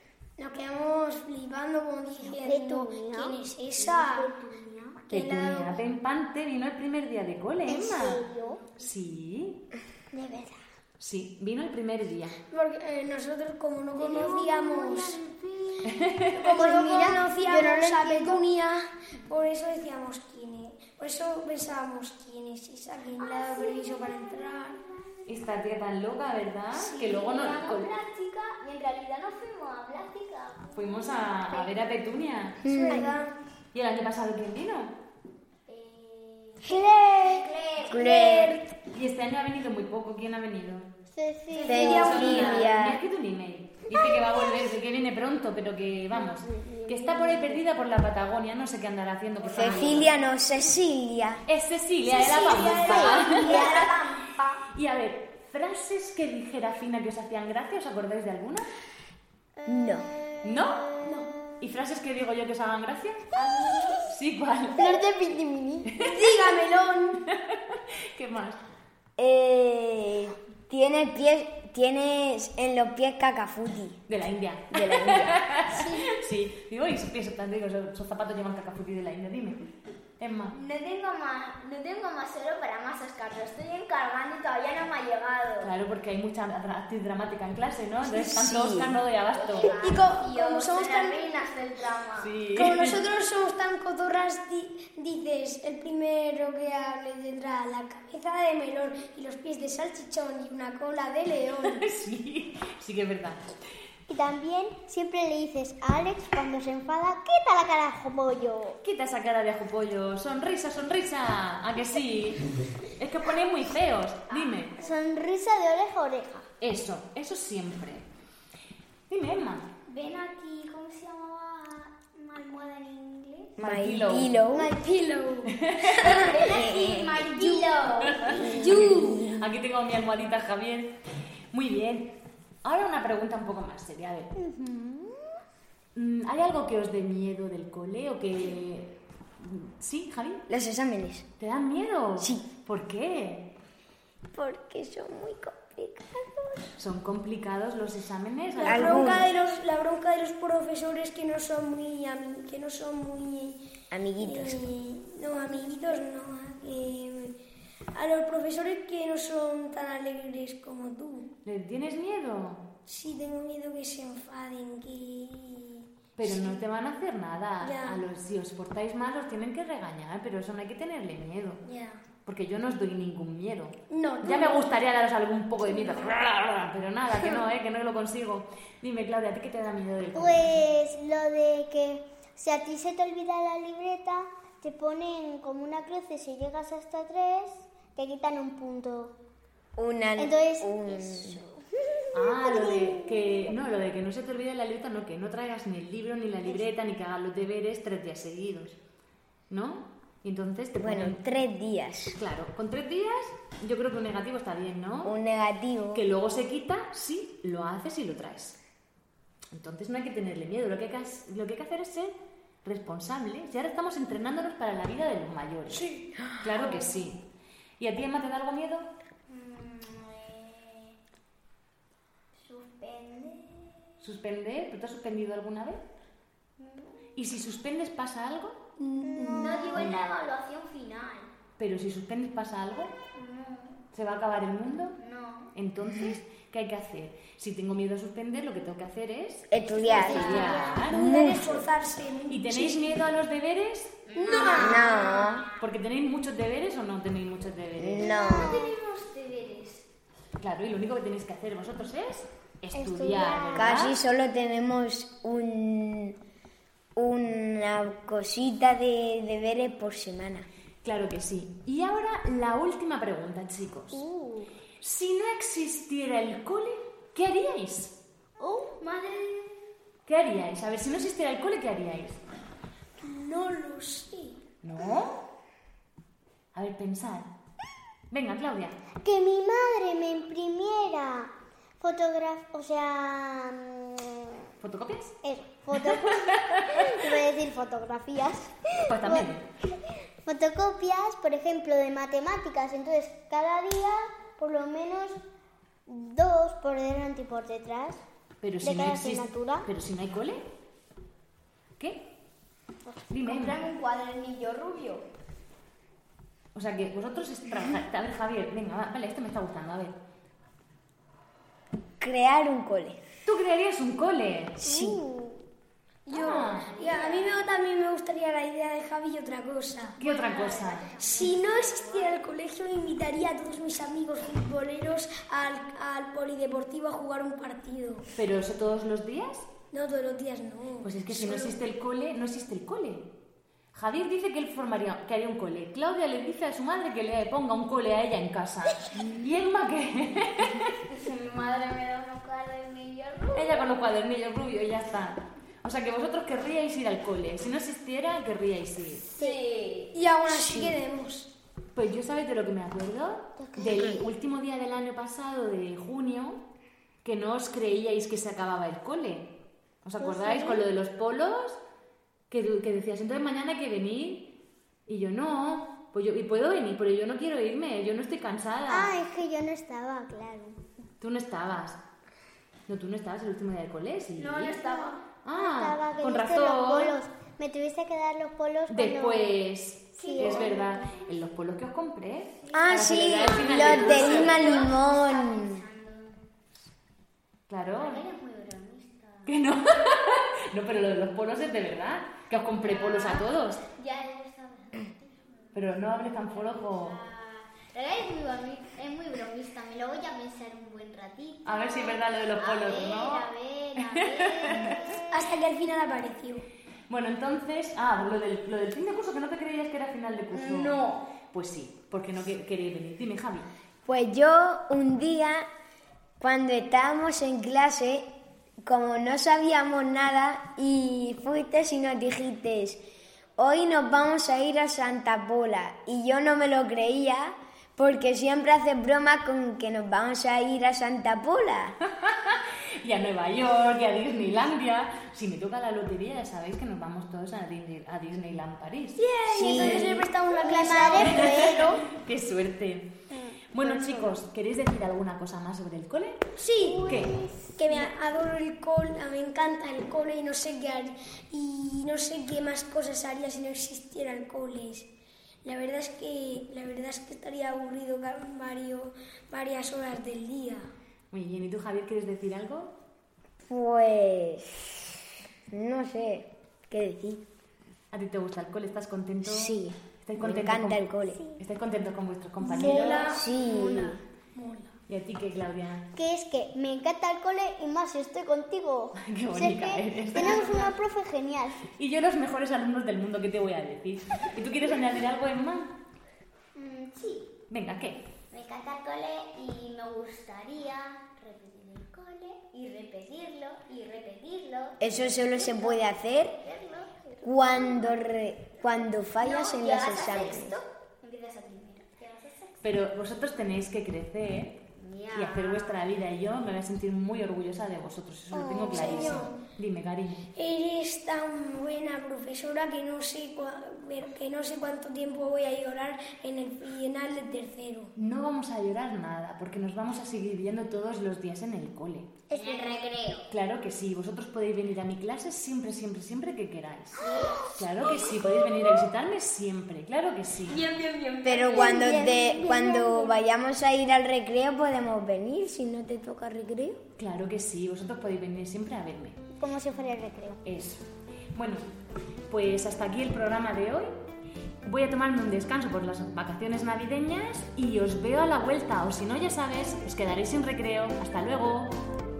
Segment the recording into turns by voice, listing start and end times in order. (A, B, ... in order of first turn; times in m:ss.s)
0:00.4-0:04.3 A
0:02.3-0:05.0 B
0:05.1-0:05.8 A
0:05.1-0:08.2 C
0:07.7-0:08.6 B
0:08.8-0:09.6 C
0:10.1-0:10.6 B
0:11.0-0:12.4 C
0:12.5-0:15.2 A
0:14.0-0:18.4 B
0:15.8-0:16.5 C
0:16.3-0:24.8 A
0:23.2-0:25.3 D
0:25.2-0:27.9 C
0:26.8-0:27.1 A
0:26.9-0:31.8 D
0:30.7-0:32.6 C
0:32.6-0:33.2 E
0:32.6-0:33.4 A
0:33.7-0:35.0 C
0:35.7-0:38.4 D
0:36.6-0:38.6 A
0:37.8-0:38.6 E
0:38.9-0:40.9 C
0:41.1-0:42.6 B
0:41.6-0:42.6 D
0:41.6-0:50.1 C
0:41.6-0:43.0 E
0:46.1-0:47.6 B
0:49.5-0:51.4 E
0:51.5-0:54.0 C
0:52.1-0:54.7 D
0:52.6-0:53.8 B
0:52.8-0:53.2 E
0:54.7-0:58.7 C
0:59.6-1:00.1 E
1:00.4-1:03.3 C
1:00.5-1:01.2 B
1:03.3-1:04.1 D
1:04.1-1:05.0 C
1:04.7-1:05.9 B
1:05.8-1:06.4 C
1:05.9-1:07.2 A
1:07.3-1:08.6 C
1:09.2-1:14.0 E
1:14.1-1:20.5 C
1:14.7-1:15.5 E
1:15.7-1:16.1 A
1:20.5-1:25.7 D
1:25.6-1:29.7 C
1:28.0-1:28.9 E
1:29.3-1:32.3 D
1:29.8-1:31.3 A
1:32.2-1:33.0 C
1:32.5-1:41.8 A
1:41.6-1:43.4 C
1:44.1-1:48.8 B
1:48.8-1:54.7 C
1:54.4-1:54.9 D
1:54.8-1:56.5 B
1:56.6-1:58.0 C
1:59.1-1:59.7 C
1:59.9-2:03.6 D
2:03.6-2:04.7 E
2:03.6-2:04.4 C
2:04.5-2:06.3 A
2:05.5-2:06.3 C
2:06.1-2:08.6 D
2:06.4-2:07.4 E
2:07.2-2:09.3 A
2:08.0-2:10.9 C
2:08.3-2:09.5 E
2:11.5-2:14.3 C
2:14.3-2:15.4 B
2:15.9-2:20.4 C
2:20.5-2:21.2 E
2:21.4-2:23.5 C
2:22.2-2:22.5 E
2:24.3-2:26.7 B
2:25.7-2:26.2 E
2:26.8-2:29.2 C
2:28.6-2:33.6 A
2:28.6-2:29.3 E
2:33.9-2:34.6 E
2:34.2-2:37.4 A
2:37.9-2:41.3 A
2:41.4-2:42.6 C
2:42.8-2:46.6 A
2:46.2-2:51.6 C
2:47.6-2:48.0 A
2:51.6-2:52.0 A
2:52.2-3:00.6 C
2:53.9-2:54.7 A
2:55.7-2:56.1 A
3:00.1-3:09.2 B
3:09.8-3:11.4 E
3:10.2-3:13.5 B
3:12.1-3:18.8 C
3:19.5-3:21.2 C
3:20.8-3:22.2 E
3:22.2-3:25.1 C
3:25.0-3:26.0 E
3:25.9-3:28.6 C
3:29.5-3:37.2 C
3:35.7-3:36.1 A
3:37.8-3:38.9 C
3:39.3-3:41.0 D
3:42.3-3:43.9 D
3:44.0-3:45.8 C
3:46.6-3:46.9 D
3:47.1-3:48.6 C
3:48.8-3:49.8 A
3:49.1-3:49.8 B
3:49.3-3:51.3 D
3:49.8-3:50.1 C
3:51.6-3:52.9 C
3:53.1-3:53.8 D
3:53.9-3:55.0 C
3:55.0-3:55.5 D
3:55.5-4:01.6 C
3:59.5-4:01.6 E
3:59.8-4:00.8 D
3:59.9-4:03.0 A
4:00.0-4:00.4 B
4:02.3-4:04.0 C
4:04.1-4:05.5 D
4:04.2-4:05.2 A
4:04.4-4:04.7 B
4:04.5-4:05.4 E
4:05.6-4:08.1 C
4:07.8-4:08.7 E
4:08.0-4:08.7 B
4:08.0-4:09.8 D
4:10.4-4:14.0 C
4:12.7-4:13.8 B
4:13.5-4:16.2 E
4:17.0-4:20.5 E
4:20.8-4:24.0 C
4:23.9-4:24.2 B
4:24.2-4:24.5 D
4:24.8-4:28.0 C
4:28.4-4:29.7 D
4:30.1-4:32.2 C
4:33.0-4:34.4 A
4:34.6-4:35.2 C
4:36.5-4:37.3 C
4:38.1-4:38.8 C
4:39.0-4:44.4 B
4:44.6-4:45.2 C
4:45.2-4:55.2 B
4:45.8-4:47.1 C
4:48.9-4:49.5 C
4:55.9-4:58.0 B
4:58.4-5:00.4 C
4:58.6-4:59.7 B
5:01.8-5:02.1 C
5:03.0-5:05.0 D
5:03.1-5:03.6 C
5:06.5-5:10.0 C
5:12.0-5:13.0 E
5:13.2-5:14.6 C
5:14.6-5:15.0 E
5:14.6-5:15.4 B
5:16.1-5:20.0 A
5:16.1-5:16.7 C
5:16.2-5:17.4 D
5:20.0-5:21.0 C
5:20.0-5:22.2 D
5:21.0-5:28.1 A
5:28.2-5:29.5 C
5:29.7-5:31.6 A
5:30.8-5:33.1 C
5:33.7-5:40.7 C
5:40.9-5:43.6 D
5:43.3-5:49.0 C
5:49.1-5:49.9 D
5:49.9-5:51.3 A
5:50.3-5:50.8 E
5:51.7-5:56.4 C
5:53.4-5:54.0 B
5:57.0-6:01.6 C
6:00.0-6:00.6 B
6:02.3-6:04.3 C
6:04.9-6:09.0 C
6:08.7-6:10.6 B
6:11.0-6:11.8 C
6:12.7-6:17.0 C
6:14.2-6:15.0 D
6:15.3-6:19.3 B
6:18.7-6:24.6 C
6:20.0-6:20.9 B
6:20.0-6:21.0 D
6:22.4-6:26.2 D
6:22.5-6:25.6 E
6:27.5-6:28.0 C
6:27.8-6:29.4 D
6:29.2-6:33.6 C
6:32.6-6:45.1 D
6:35.5-6:37.0 C
6:41.4-6:44.9 C
6:45.1-6:46.4 A
6:46.9-6:53.5 C
6:50.3-6:51.1 D
6:53.8-6:55.5 E
6:56.2-6:58.1 E
6:58.6-7:02.8 E
7:03.4-7:11.8 E
7:11.9-7:20.1 C
7:19.0-7:21.8 A
7:19.3-7:20.0 E
7:20.4-7:21.9 B
7:20.4-7:21.6 D
7:20.9-7:22.9 C
7:23.5-7:26.2 C
7:26.4-7:27.0 A
7:26.6-7:27.5 B
7:26.8-7:27.2 C
7:27.6-7:34.9 A
7:35.4-7:40.7 A
7:41.1-7:42.7 C
7:43.4-7:47.2 E
7:47.9-7:50.9 C
7:49.2-7:51.2 E
7:51.4-7:53.1 C
7:52.4-7:54.7 A
7:52.5-7:53.1 B
7:52.5-7:54.0 E
7:52.6-7:53.9 D
7:54.9-7:55.9 C
7:55.9-8:01.7 B
7:59.0-8:00.6 C
8:00.1-8:00.8 D
8:01.8-8:05.7 C
8:06.5-8:07.3 D
8:07.5-8:08.0 C
8:08.3-8:18.0 D
8:14.8-8:16.4 E
8:17.2-8:20.6 E
8:19.2-8:22.7 D
8:22.6-8:30.3 C
8:24.8-8:25.8 D
8:28.3-8:29.2 B
8:28.7-8:29.4 A
8:30.3-8:37.9 A
8:38.0-8:42.2 C
8:42.3-8:43.3 D
8:42.3-8:42.8 B
8:43.3-8:50.6 C
8:47.0-8:48.2 D
8:50.4-8:52.4 D
8:51.2-8:56.8 E
8:51.5-8:53.1 B
8:57.0-8:59.2 C
8:59.3-9:00.4 B
9:00.4-9:01.6 C
9:02.3-9:04.0 C
9:04.6-9:11.8 C